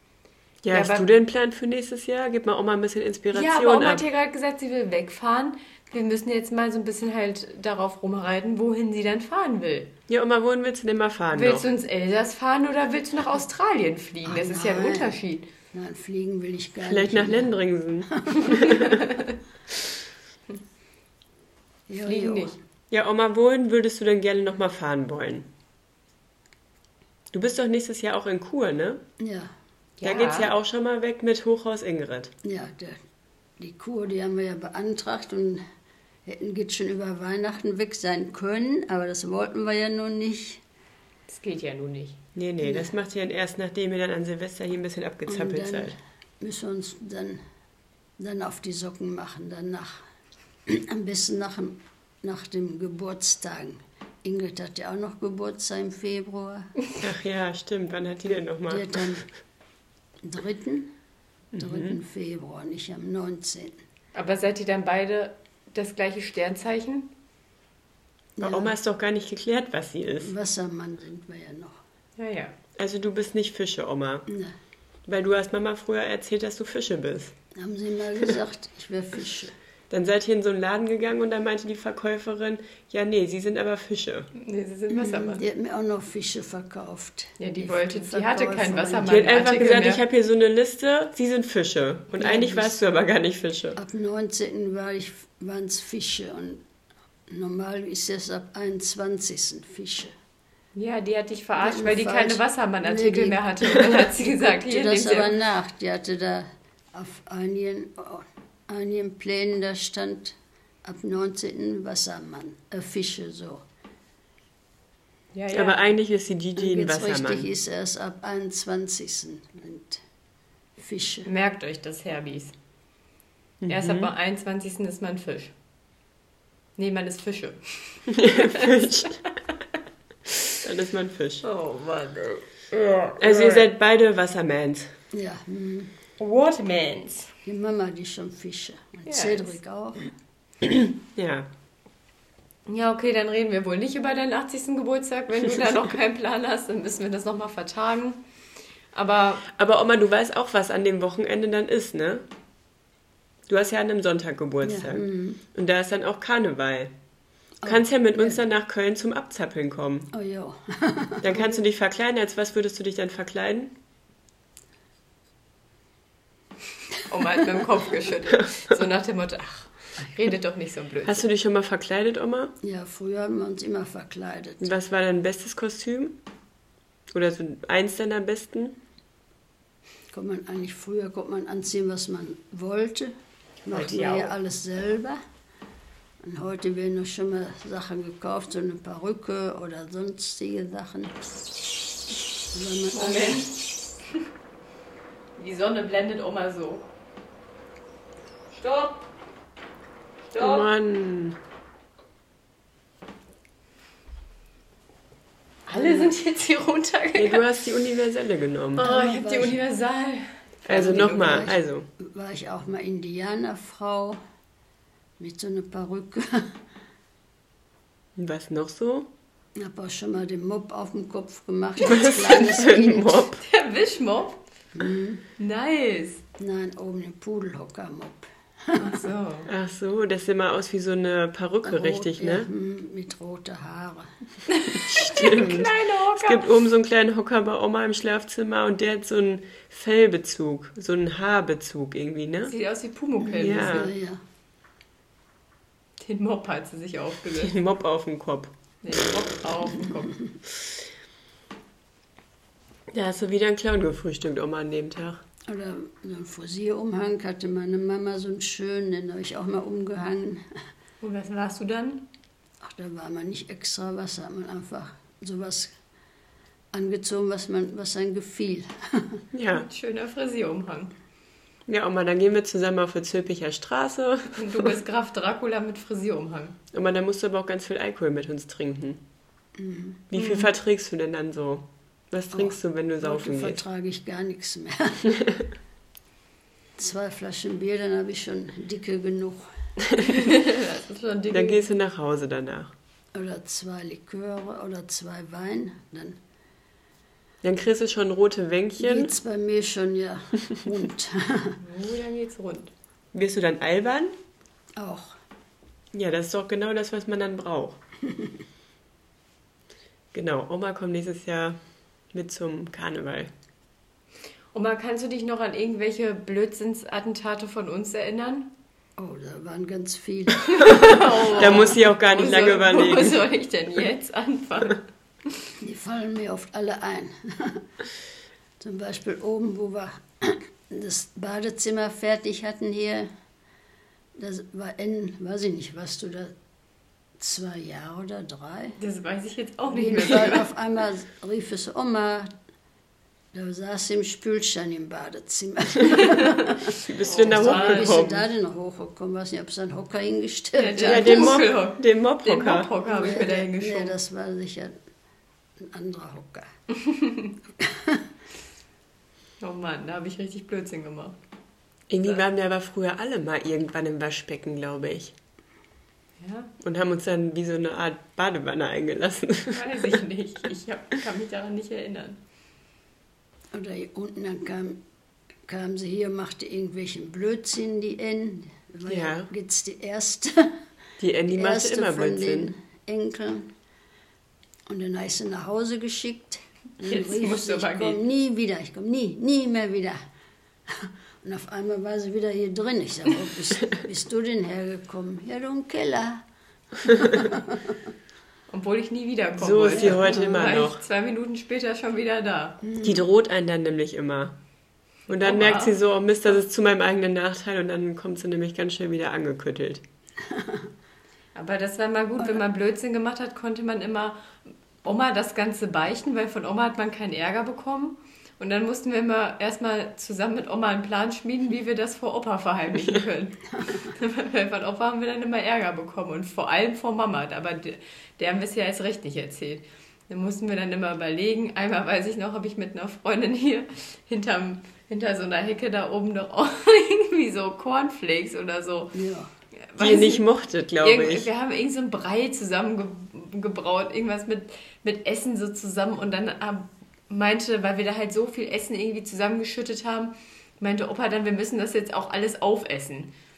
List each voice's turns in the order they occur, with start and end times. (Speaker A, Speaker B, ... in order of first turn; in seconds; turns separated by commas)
Speaker A: 0.6-4.0, Speaker B: 0.7-1.1, Speaker B: 3.3-9.9, Speaker A: 10.1-11.7, Speaker B: 11.3-15.5, Speaker C: 14.2-15.2, Speaker C: 15.7-17.5, Speaker A: 16.9-19.0, Speaker C: 18.2-18.6, Speaker B: 18.5-19.4, Speaker C: 21.9-22.6, Speaker B: 22.1-22.5, Speaker A: 22.9-25.5, Speaker A: 27.3-29.0, Speaker C: 29.2-29.5, Speaker B: 30.0-30.5, Speaker A: 30.0-32.3, Speaker C: 32.4-33.0, Speaker C: 33.6-35.6, Speaker C: 36.2-40.6, Speaker B: 41.3-42.2, Speaker A: 42.4-46.0, Speaker C: 45.3-47.4, Speaker C: 48.2-50.0, Speaker C: 50.7-56.7, Speaker A: 57.0-59.2, Speaker C: 58.7-59.3, Speaker C: 60.2-60.9, Speaker A: 61.5-62.0, Speaker C: 61.6-63.8, Speaker B: 64.2-67.1, Speaker C: 68.4-68.7, Speaker A: 68.4-70.3, Speaker C: 70.2-71.8, Speaker B: 72.2-72.5, Speaker A: 72.8-74.3, Speaker C: 74.3-74.5, Speaker A: 75.1-77.3, Speaker C: 77.5-79.5, Speaker A: 79.9-84.3, Speaker B: 84.3-85.4, Speaker C: 84.9-89.2, Speaker B: 87.4-90.0, Speaker A: 89.0-93.8, Speaker B: 92.2-92.7, Speaker C: 93.8-96.6, Speaker C: 97.3-100.1, Speaker B: 100.8-105.3, Speaker C: 101.6-113.6, Speaker B: 115.3-115.8, Speaker A: 115.5-117.5, Speaker C: 116.6-120.0, Speaker C: 120.8-121.3, Speaker B: 121.3-122.5, Speaker A: 123.6-124.1, Speaker B: 123.7-125.5, Speaker B: 126.8-129.3, Speaker A: 128.1-129.2, Speaker A: 130.6-131.4, Speaker B: 131.4-133.7, Speaker A: 133.2-134.9, Speaker C: 135.1-135.9, Speaker B: 136.2-137.3, Speaker C: 137.4-140.1, Speaker B: 139.1-139.5, Speaker A: 140.6-141.5, Speaker B: 142.7-148.2, Speaker B: 148.9-149.5, Speaker A: 149.5-152.2, Speaker A: 153.5-156.9, Speaker C: 154.6-155.4, Speaker C: 157.6-158.4, Speaker A: 157.6-160.1, Speaker C: 160.1-161.3, Speaker A: 161.2-163.8, Speaker B: 167.1-171.2, Speaker A: 171.1-172.5, Speaker C: 172.6-174.7, Speaker A: 174.6-176.2, Speaker A: 177.1-178.8, Speaker C: 180.1-183.1, Speaker C: 183.7-185.2, Speaker B: 183.7-184.3, Speaker C: 186.2-191.2, Speaker C: 192.5-193.5, Speaker B: 192.9-193.6, Speaker B: 195.4-196.9, Speaker B: 198.6-199.0, Speaker B: 200.3-200.7, Speaker A: 200.4-201.4, Speaker B: 205.7-207.4, Speaker C: 205.7-206.1, Speaker A: 207.2-208.9, Speaker B: 208.8-211.5, Speaker C: 208.8-209.6, Speaker A: 210.7-211.9, Speaker C: 210.7-214.2, Speaker C: 215.2-216.6, Speaker A: 218.2-219.1, Speaker C: 219.6-223.2, Speaker A: 221.8-223.4, Speaker B: 223.4-224.4, Speaker C: 224.8-225.2, Speaker B: 225.4-226.2, Speaker C: 226.4-229.0, Speaker B: 228.8-229.5, Speaker A: 229.5-232.5, Speaker C: 231.6-234.1, Speaker B: 234.5-236.5, Speaker A: 234.9-242.5, Speaker B: 242.5-243.9, Speaker C: 243.2-244.2, Speaker A: 243.4-243.9, Speaker B: 246.0-247.5, Speaker A: 247.3-248.5, Speaker B: 248.8-250.2, Speaker A: 252.9-255.2, Speaker C: 255.5-260.5, Speaker B: 261.0-262.1, Speaker C: 262.6-265.7, Speaker C: 266.7-269.2, Speaker A: 269.3-269.7, Speaker B: 269.5-270.9, Speaker A: 271.7-274.7, Speaker B: 274.4-276.6, Speaker A: 276.7-279.0, Speaker C: 279.6-280.0, Speaker A: 280.1-283.6, Speaker B: 280.1-280.5, Speaker C: 282.3-285.2, Speaker C: 286.8-289.5, Speaker B: 290.0-291.6, Speaker A: 291.3-292.7, Speaker C: 293.1-296.2, Speaker A: 297.4-299.1, Speaker C: 298.8-301.6, Speaker B: 301.6-302.7, Speaker A: 303.1-304.1, Speaker C: 304.8-305.2, Speaker A: 305.9-307.8, Speaker A: 310.1-311.6, Speaker A: 312.1-313.3, Speaker B: 314.5-318.5, Speaker C: 319.0-321.6, Speaker B: 320.5-324.8, Speaker A: 321.3-323.3, Speaker C: 325.6-327.7, Speaker C: 328.6-333.1, Speaker C: 334.2-336.3, Speaker C: 337.2-338.8, Speaker B: 338.8-340.5, Speaker C: 339.7-342.3, Speaker C: 343.3-351.4, Speaker A: 346.8-348.3, Speaker B: 347.0-348.1, Speaker B: 350.6-353.9, Speaker A: 350.8-352.7, Speaker C: 352.9-354.8, Speaker C: 355.6-356.5, Speaker B: 356.9-357.3, Speaker C: 357.6-358.1, Speaker B: 359.4-361.2, Speaker A: 361.9-365.1, Speaker B: 366.2-366.5, Speaker A: 366.6-370.0, Speaker B: 369.5-372.2, Speaker C: 373.5-374.8, Speaker C: 375.5-380.5, Speaker A: 378.9-379.3, Speaker A: 381.0-382.5, Speaker C: 381.3-383.5, Speaker C: 384.7-390.0, Speaker B: 386.8-388.0, Speaker C: 390.7-396.2, Speaker C: 396.8-397.8, Speaker B: 398.5-402.6, Speaker A: 399.4-400.8, Speaker C: 402.6-403.0, Speaker A: 402.8-404.4, Speaker A: 405.1-409.8, Speaker B: 405.2-405.8, Speaker C: 410.3-410.7, Speaker B: 411.4-439.0, Speaker C: 423.6-423.9, Speaker C: 438.9-439.3, Speaker B: 439.7-440.2, Speaker A: 439.8-441.3, Speaker B: 440.8-453.1